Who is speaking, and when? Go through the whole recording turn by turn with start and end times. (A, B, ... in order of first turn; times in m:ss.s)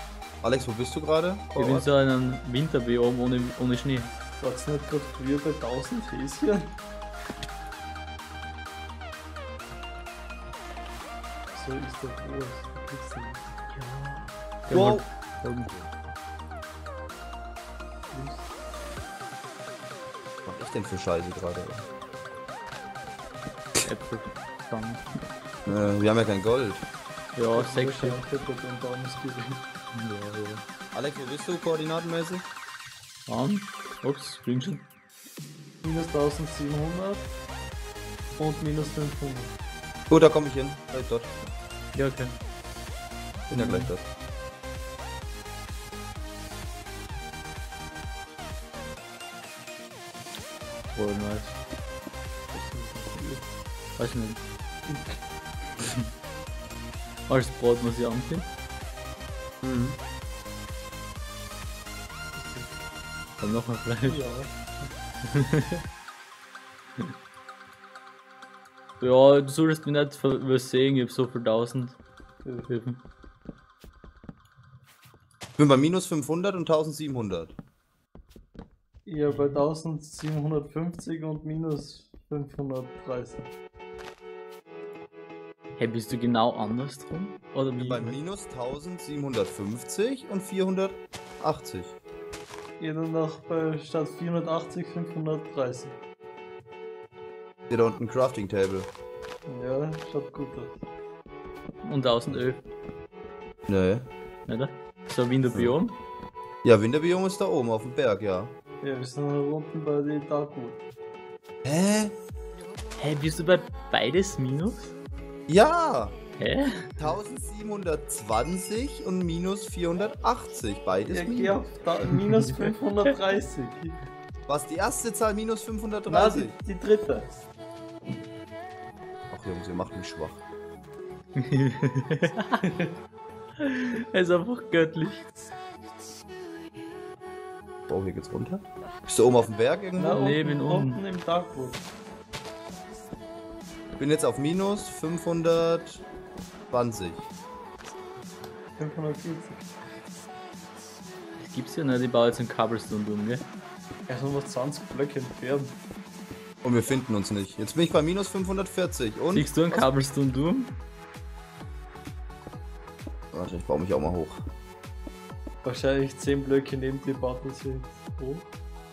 0:00.4-0:01.9 A
0:01.5-0:04.1 B
0:04.4-0:06.7 C
0:11.5-0:13.4 C
0:13.7-0:15.7 B
0:14.7-0:15.0 A
0:18.1-0:18.5 C
0:20.5-0:21.8 A
0:23.8-0:25.3 B
0:25.7-0:26.8 A
0:27.4-0:28.2 B
0:27.5-0:29.6 C
0:29.9-0:30.6 B
0:30.9-0:32.4 A
0:33.3-0:34.8 B
0:35.8-0:37.3 C
0:38.4-0:39.5 C
0:40.1-0:41.4 A
0:41.9-0:42.3 B
0:43.5-0:43.8 C
0:43.5-0:44.0 A
0:50.9-0:51.6 B
0:52.5-0:53.4 C
0:54.0-0:54.4 B
0:55.8-0:56.1 B
0:57.3-0:58.5 B
0:59.6-1:00.0 A
1:02.4-1:02.7 C
1:03.4-1:04.2 B
1:04.1-1:04.5 C
1:05.2-1:05.8 B
1:09.0-1:12.0 B
1:12.4-1:12.7 C
1:12.7-1:13.0 B
1:15.6-1:17.5 A
1:19.0-1:23.5 C
1:19.3-1:19.6 B
1:25.8-1:28.2 B
1:27.8-1:32.0 A
1:32.8-1:36.0 C
1:37.7-1:38.9 A
1:39.5-1:40.8 C
1:41.8-1:42.6 B
1:43.7-1:44.0 A
1:44.5-1:46.0 B
1:46.6-1:48.5 A
1:48.8-1:50.8 C
1:51.6-1:52.1 A
1:53.0-1:54.9 B
1:55.5-1:56.2 A
1:56.4-1:57.0 B
1:57.0-2:01.6 A
2:01.0-2:04.0 C
2:02.0-2:03.1 B
2:04.5-2:06.5 A
2:06.1-2:07.3 C
2:09.3-2:10.4 A
2:11.4-2:12.6 B
2:13.6-2:15.3 B
2:17.9-2:20.1 A
2:20.0-2:21.8 C
2:20.1-2:21.0 B
2:24.0-2:26.0 A
2:26.7-2:27.3 A
2:28.8-2:29.7 C
2:31.4-2:33.4 B
2:34.1-2:35.8 C
2:36.6-2:39.9 A
2:39.3-2:40.8 B
2:43.3-2:44.4 A
2:45.6-2:48.5 C